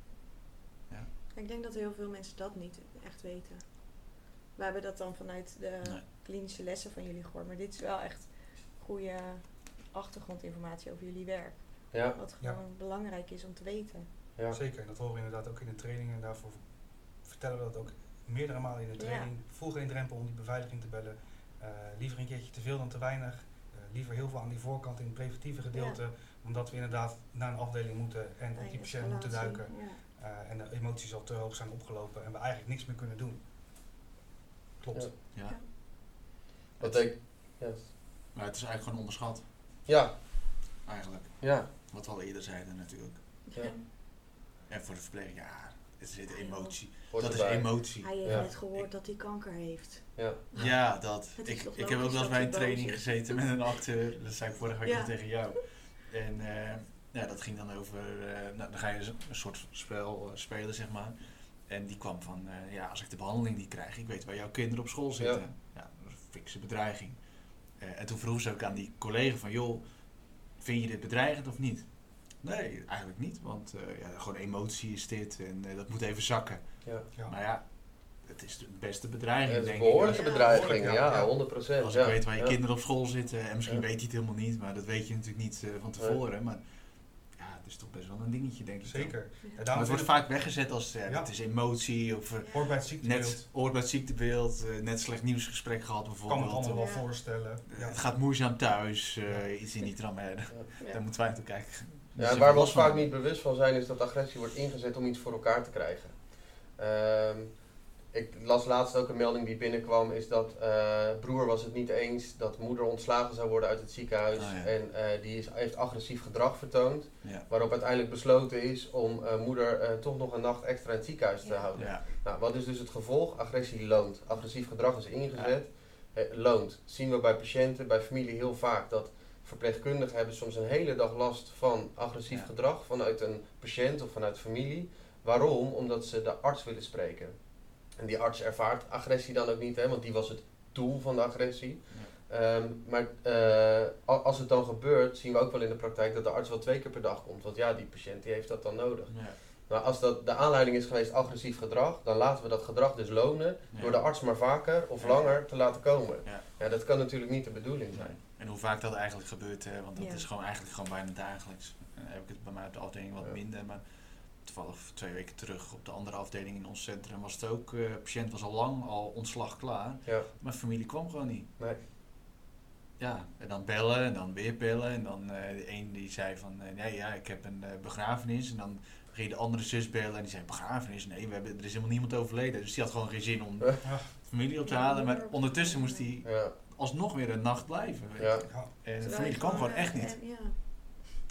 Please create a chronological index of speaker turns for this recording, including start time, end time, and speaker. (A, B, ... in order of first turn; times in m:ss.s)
0:01.3-0:14.1 A
0:11.9-0:12.2 B
0:14.5-0:33.4 C
0:19.0-0:19.3 A
0:25.7-0:26.0 A
0:28.6-0:30.0 A
0:34.8-0:35.1 C
0:35.3-0:35.6 D
0:36.8-0:37.1 D
0:36.8-0:37.9 B
0:38.3-0:39.5 D
0:39.9-0:40.2 B
0:40.8-0:43.8 D
0:41.4-0:41.7 B
0:43.5-0:43.8 A
0:44.7-0:48.9 D
0:46.3-0:53.8 A
0:47.1-0:48.5 B
0:50.2-0:50.4 B
0:50.6-1:20.4 D
0:54.8-0:55.6 A
1:19.5-1:22.6 B
1:20.0-1:20.8 A
1:20.3-1:21.3 C
1:21.8-1:37.1 D
1:28.8-1:31.3 C
1:32.5-1:33.4 C
1:36.3-1:38.0 C
1:36.7-1:37.1 A
1:37.7-1:43.1 D
1:39.2-1:39.5 C
1:42.2-2:38.2 B
1:54.3-1:54.7 D
2:01.4-2:01.7 A
2:01.8-2:02.0 D
2:29.1-2:29.4 D
2:33.7-2:34.2 D
2:35.0-2:35.5 D
2:37.9-2:51.5 D
2:40.0-2:40.3 A
2:51.6-2:51.8 B
2:53.0-3:10.2 D
3:03.8-3:04.1 C
3:04.6-3:06.1 A
3:06.2-3:06.5 B
3:08.2-3:08.5 B
3:08.5-3:08.7 C
3:09.0-3:11.1 A